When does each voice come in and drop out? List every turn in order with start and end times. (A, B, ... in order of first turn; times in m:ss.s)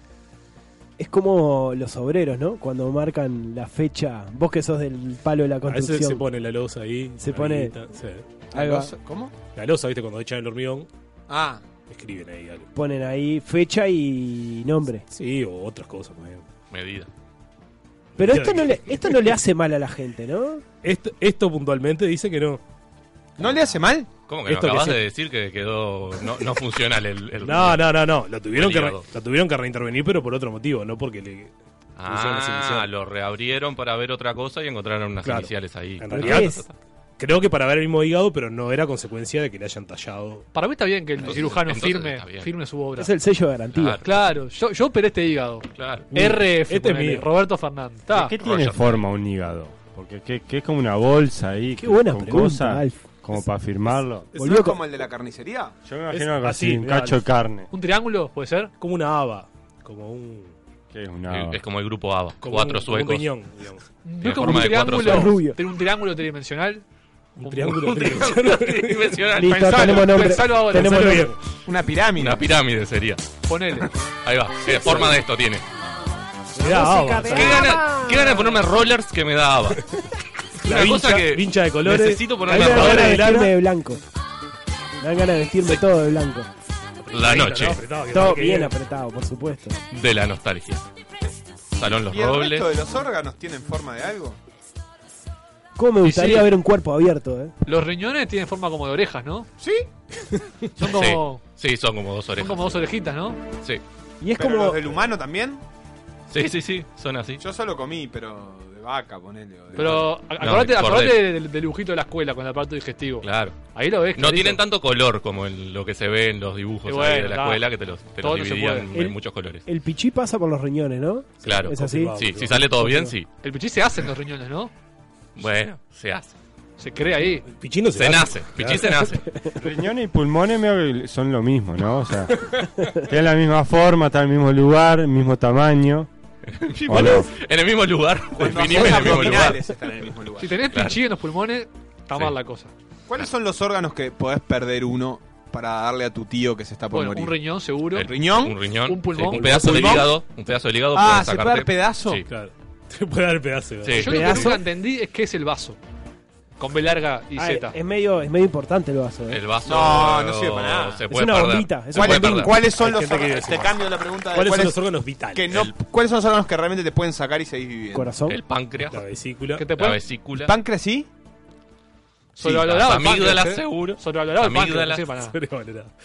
0:01.0-0:06.2 A
0:05.7-0:08.3 B
0:07.2-0:07.7 A
0:08.5-0:09.3 C
0:08.5-0:08.9 A
0:09.6-0:10.9 B
0:11.3-0:11.6 C
0:11.9-0:12.7 B
0:12.8-0:15.1 A
0:15.1-0:16.5 B
0:16.7-0:17.1 D
0:18.2-0:19.2 B
0:18.2-0:20.6 A
0:20.8-0:22.6 B
0:23.4-0:24.1 C
0:24.3-0:27.8 D
0:24.5-0:25.0 B
0:27.4-0:31.5 B
0:28.5-0:29.0 D
0:32.0-0:36.7 D
0:32.1-0:32.9 B
0:35.2-0:36.6 B
0:36.1-0:36.6 A
0:37.2-0:40.5 B
0:40.5-0:43.1 E
0:41.2-0:42.5 D
0:43.0-0:44.0 A
0:43.8-0:44.2 D
0:44.0-0:48.4 E
0:45.8-0:46.1 D
0:46.1-0:47.3 B
0:48.1-0:54.3 F
0:48.4-0:49.0 D
0:51.8-0:53.0 A
0:54.4-0:54.8 A
0:54.4-0:55.8 C
0:55.8-0:57.7 F
0:56.1-0:57.2 B
0:57.7-0:58.7 E
0:58.8-1:00.5 B
1:00.9-1:01.6 F
1:01.3-1:03.3 D
1:02.4-1:03.9 B
1:04.0-1:06.8 E
1:04.2-1:05.4 D
1:04.9-1:05.6 A
1:07.4-1:09.2 B
1:07.4-1:07.8 E
1:07.8-1:10.3 D
1:09.4-1:11.3 A
1:09.6-1:11.2 E
1:10.7-1:11.4 B
1:11.6-1:12.4 C
1:12.2-1:13.2 D
1:13.5-1:13.9 E
1:13.8-1:15.6 D
1:16.6-1:18.5 A
1:16.6-1:17.6 B
1:17.3-1:19.8 D
1:20.6-1:23.5 B
1:20.6-1:23.3 D
1:22.4-1:24.0 A
1:25.0-1:26.5 A
1:27.1-1:28.7 B
1:27.1-1:27.8 D
1:28.1-1:29.8 A
1:29.9-1:30.8 D
1:31.8-1:32.7 D
1:32.1-1:34.4 C
1:35.8-1:37.5 A
1:36.0-1:36.4 E
1:37.7-1:39.5 E
1:39.6-1:39.9 C
1:40.8-1:41.4 E
1:40.8-1:42.9 D
1:42.4-1:43.4 E
1:44.2-1:44.8 A
1:44.4-1:45.6 C
1:46.3-1:47.4 D
1:47.4-1:50.1 C
1:49.8-1:54.6 E
1:50.4-1:51.2 D
1:53.2-1:53.6 D
1:54.1-1:59.6 D
1:56.9-1:57.6 E
1:58.2-1:58.9 E
1:59.7-2:02.1 A
2:01.4-2:03.1 B
2:01.4-2:03.3 D
2:03.4-2:04.7 E
2:05.4-2:06.3 D
2:06.8-2:07.5 E
2:07.5-2:09.0 B
2:08.0-2:09.2 D
2:09.6-2:12.4 F
2:13.0-2:16.1 F
2:16.5-2:19.6 D
2:16.9-2:17.3 F
2:18.4-2:20.6 C
2:20.4-2:22.7 E
2:20.7-2:21.0 D
2:23.1-2:27.4 C
2:26.9-2:28.1 E
2:27.9-2:32.3 D
2:28.0-2:28.6 C
2:28.9-2:30.0 E
2:29.4-2:30.1 B
2:30.9-2:32.2 C
2:32.3-2:34.6 B
2:33.8-2:34.5 D
2:34.0-2:35.8 E
2:34.0-2:34.6 A
2:36.6-2:37.8 E
2:37.4-2:39.4 A
2:39.3-2:42.6 D
2:39.6-2:41.0 C
2:41.1-2:42.5 A
2:42.0-2:48.1 C
2:42.6-2:45.6 B
2:47.9-2:48.4 A
2:48.3-2:49.0 D
2:48.9-2:49.7 B
2:49.6-2:50.0 E
2:49.8-2:50.5 D
2:50.4-2:51.1 C
2:52.4-2:55.4 E
2:52.4-2:55.1 D
2:55.3-2:55.9 B